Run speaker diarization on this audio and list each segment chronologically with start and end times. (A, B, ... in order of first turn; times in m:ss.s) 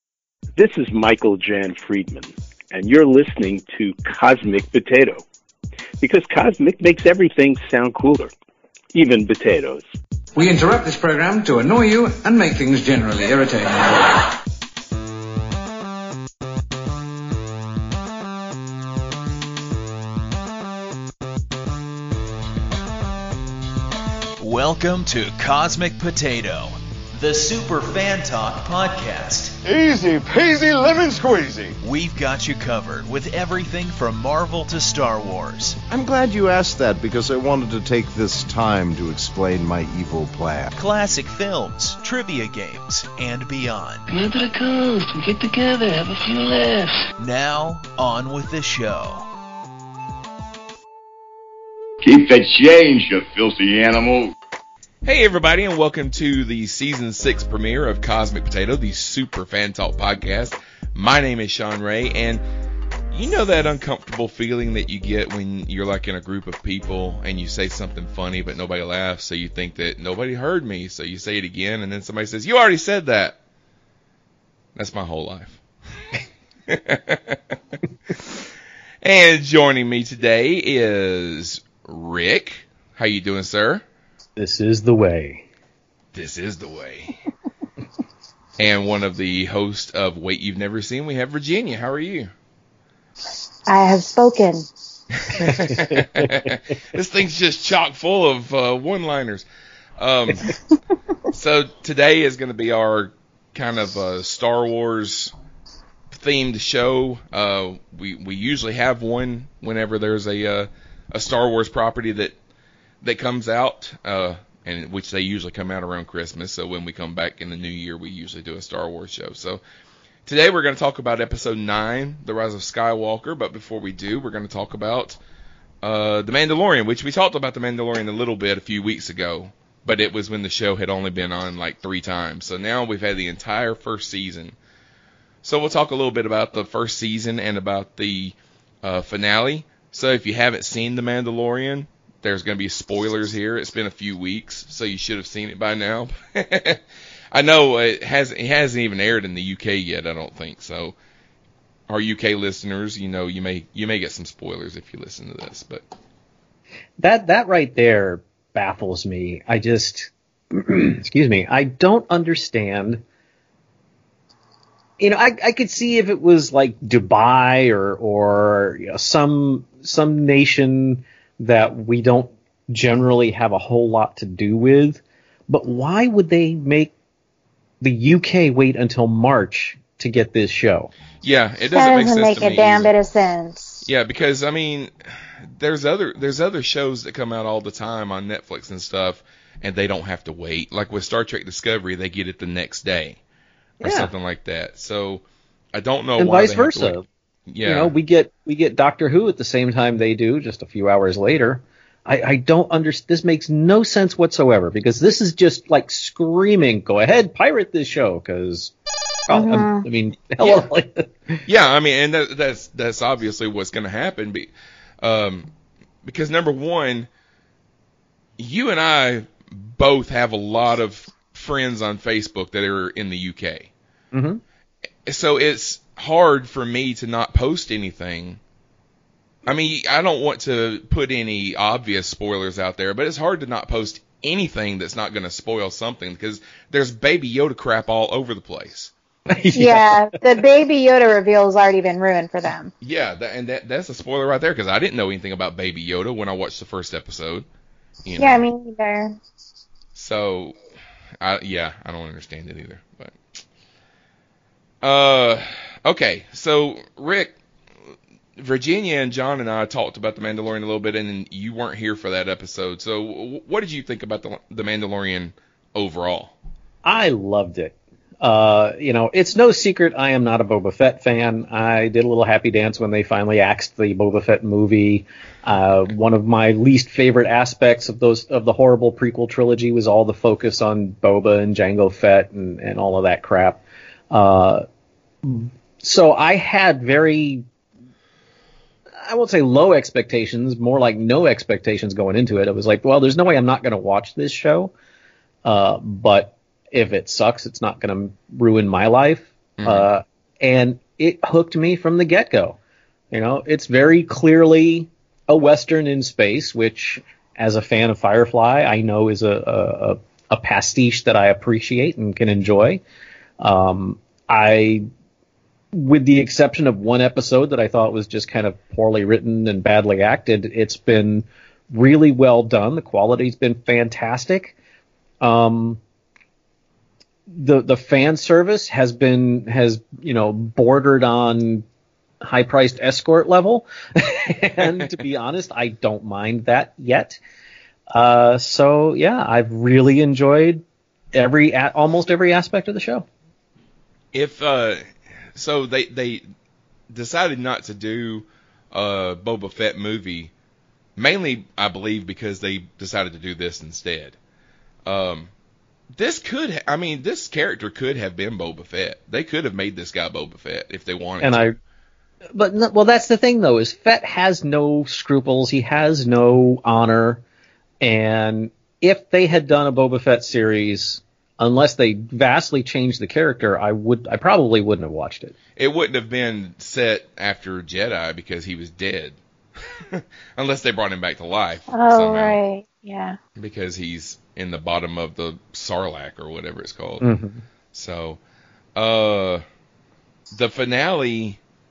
0:00.6-0:05.2 A
0:06.0-0:08.3 A
0:08.9-0:09.8 A
0:10.3-0:14.3 B
0:24.4-0:29.6 C
0:29.6-0:31.8 D
0:31.8-0:35.8 C
0:35.9-0:40.8 D
0:40.8-0:44.0 C
0:44.1-0:47.1 E
0:47.2-0:49.3 C
0:52.0-0:54.3 F
0:55.0-1:02.4 G
1:03.1-1:13.4 G
1:14.8-1:15.6 G
1:16.7-1:17.4 G
1:18.1-1:18.4 G
1:19.0-1:23.8 G
1:24.4-1:25.4 H
1:26.1-1:27.2 G
1:28.6-1:32.3 G
1:33.7-1:34.7 I
1:35.3-1:39.4 G
1:35.5-1:36.5 H
1:40.0-1:40.5 G
1:41.3-1:45.3 G
1:46.1-1:52.3 G
1:53.0-1:59.6 G
2:00.2-2:05.2 G
2:05.8-2:14.6 G
2:15.4-2:26.8 G
2:27.3-2:31.0 G
2:31.9-2:35.8 G
2:37.0-2:43.0 H
2:45.0-2:56.9 H
2:57.8-3:00.9 H
3:01.2-3:02.9 G
3:01.7-3:03.8 I
3:03.8-3:04.9 G
3:05.4-3:13.2 G
3:13.8-3:14.1 H
3:13.8-3:17.9 G
3:16.2-3:17.0 H
3:17.6-3:28.7 H
3:29.3-3:31.4 H
3:29.3-3:29.8 I
3:30.4-3:30.7 G
3:31.4-3:34.5 G
3:35.0-3:35.5 G
3:36.0-3:37.1 G
3:38.4-3:43.7 G
3:44.1-3:44.4 H
3:45.1-3:48.4 G
3:49.4-3:58.9 G
3:59.3-4:00.1 H
3:59.5-4:02.7 I
4:02.8-4:07.4 G
4:08.0-4:08.4 G
4:08.2-4:09.2 I
4:09.9-4:10.6 G
4:11.2-4:13.2 G
4:14.8-4:17.3 G
4:18.4-4:26.3 G
4:26.8-4:44.6 H
4:45.2-4:47.4 H
4:49.0-4:54.7 H
4:55.4-5:02.6 H
4:59.6-4:59.9 G
5:03.1-5:12.8 H
5:13.4-5:14.8 H
5:15.7-5:24.6 H
5:25.2-5:25.8 H
5:27.3-5:31.6 H
5:32.2-5:37.2 H
5:37.9-5:43.1 H
5:44.1-5:44.8 G
5:45.3-5:46.2 G
5:46.9-5:50.3 G
5:51.0-5:54.2 G
5:54.8-5:55.3 G
5:55.9-6:01.5 G
6:01.2-6:01.6 H
6:02.3-6:07.2 H
6:07.8-6:15.3 H
6:15.6-6:22.4 G
6:21.7-6:23.2 I
6:23.4-6:27.1 G
6:27.0-6:27.4 H
6:27.7-6:28.2 G
6:28.8-6:29.4 G
6:30.3-6:31.4 G